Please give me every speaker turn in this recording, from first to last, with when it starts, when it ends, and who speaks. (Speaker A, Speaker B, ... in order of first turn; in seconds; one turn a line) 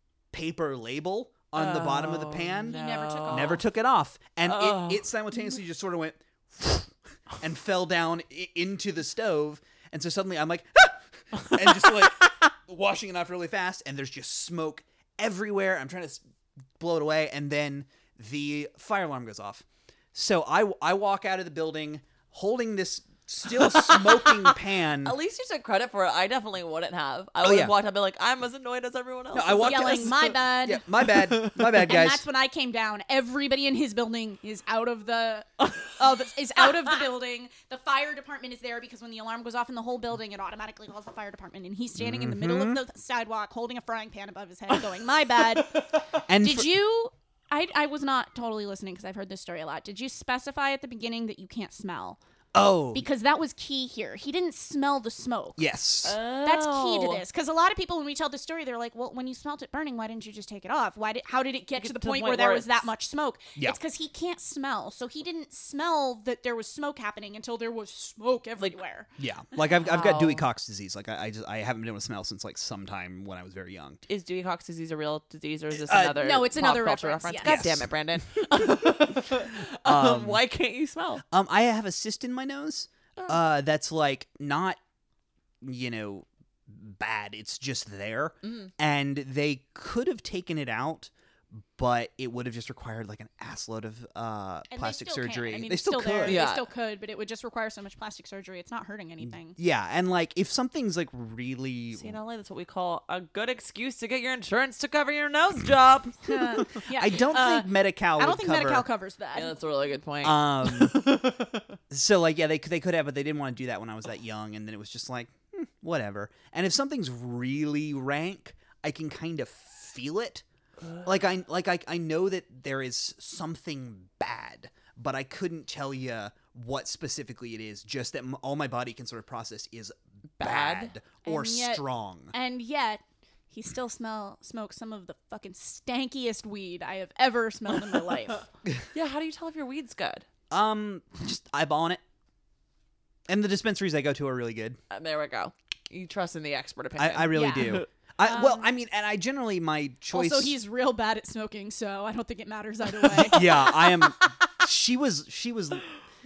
Speaker A: 0.3-16.2
Speaker B: 1.5-3.6
Speaker C: 2.7-3.6
Speaker B: 4.4-5.0
Speaker A: 16.8-25.2
Speaker B: 23.6-30.2
Speaker A: 27.4-27.7
Speaker A: 29.3-32.3
Speaker C: 29.5-30.8
Speaker B: 31.0-31.6
Speaker C: 31.6-45.8
Speaker A: 42.0-42.8
Speaker A: 46.2-46.8
Speaker C: 46.4-52.2
Speaker A: 52.5-53.0
Speaker C: 52.9-55.6
Speaker A: 55.6-56.2
Speaker B: 56.0-57.2
Speaker C: 56.4-69.1
Speaker B: 61.8-62.9
Speaker A: 69.2-74.0
Speaker B: 69.8-70.5
Speaker B: 74.1-81.2
Speaker A: 75.7-76.3
Speaker C: 76.2-77.7
Speaker A: 77.4-80.4
Speaker A: 81.3-84.8
Speaker A: 85.6-96.4
Speaker B: 88.4-88.7
Speaker C: 94.7-99.6
Speaker B: 96.2-96.7
Speaker A: 99.2-102.2
Speaker B: 101.9-107.6
Speaker C: 106.2-107.6
Speaker A: 106.7-108.8
Speaker C: 108.2-109.5
Speaker B: 109.3-111.8
Speaker A: 110.2-111.1
Speaker A: 111.9-120.4
Speaker A: 121.0-132.3
Speaker B: 130.4-130.9
Speaker C: 131.2-138.4
Speaker B: 138.9-140.3
Speaker A: 140.5-142.0
Speaker A: 143.3-144.8
Speaker B: 144.9-147.8
Speaker A: 147.0-150.6
Speaker C: 147.3-148.6
Speaker C: 150.1-153.7
Speaker B: 153.2-154.1
Speaker A: 153.3-155.9